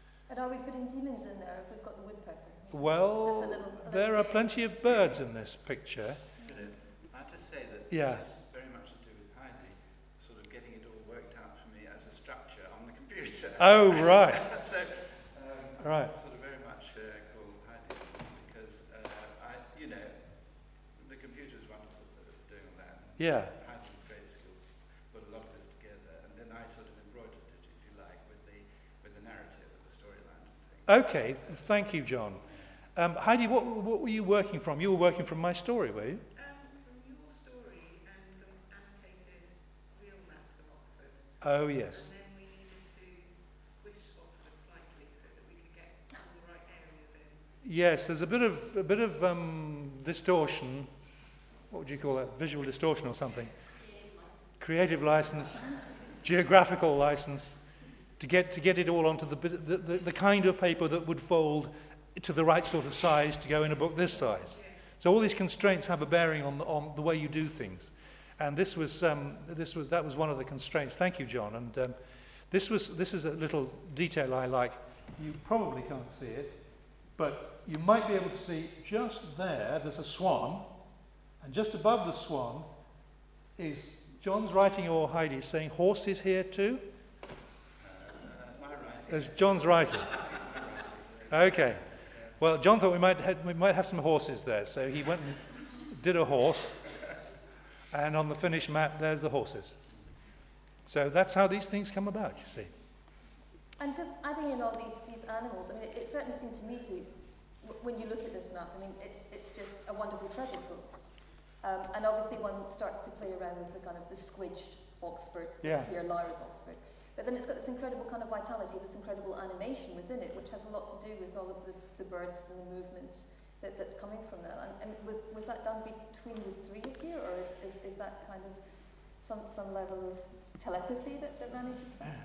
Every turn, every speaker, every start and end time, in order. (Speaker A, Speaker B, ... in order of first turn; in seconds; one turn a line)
Speaker A: 0.3-4.5
Speaker B: 2.7-6.2
Speaker A: 6.4-6.7
Speaker C: 6.4-31.9
Speaker B: 7.9-8.2
Speaker B: 13.6-14.5
Speaker B: 15.8-16.1
Speaker B: 23.2-23.5
Speaker B: 30.9-36.2
Speaker C: 32.4-32.8
Speaker D: 36.3-47.4
Speaker B: 41.4-42.1
Speaker B: 47.6-50.9
Speaker B: 51.7-53.5
Speaker B: 54.6-55.7
Speaker B: 56.2-57.5
Speaker B: 58.2-72.0
Speaker D: 64.0-64.8
Speaker B: 72.5-76.5
Speaker B: 77.2-80.7
Speaker B: 81.4-82.7
Speaker B: 83.5-86.8
Speaker C: 87.8-92.3
Speaker B: 89.1-90.1
Speaker B: 91.3-91.8
Speaker B: 92.4-96.9
Speaker B: 97.9-99.8
Speaker B: 100.9-102.7
Speaker A: 103.8-132.1
Speaker B: 115.6-115.9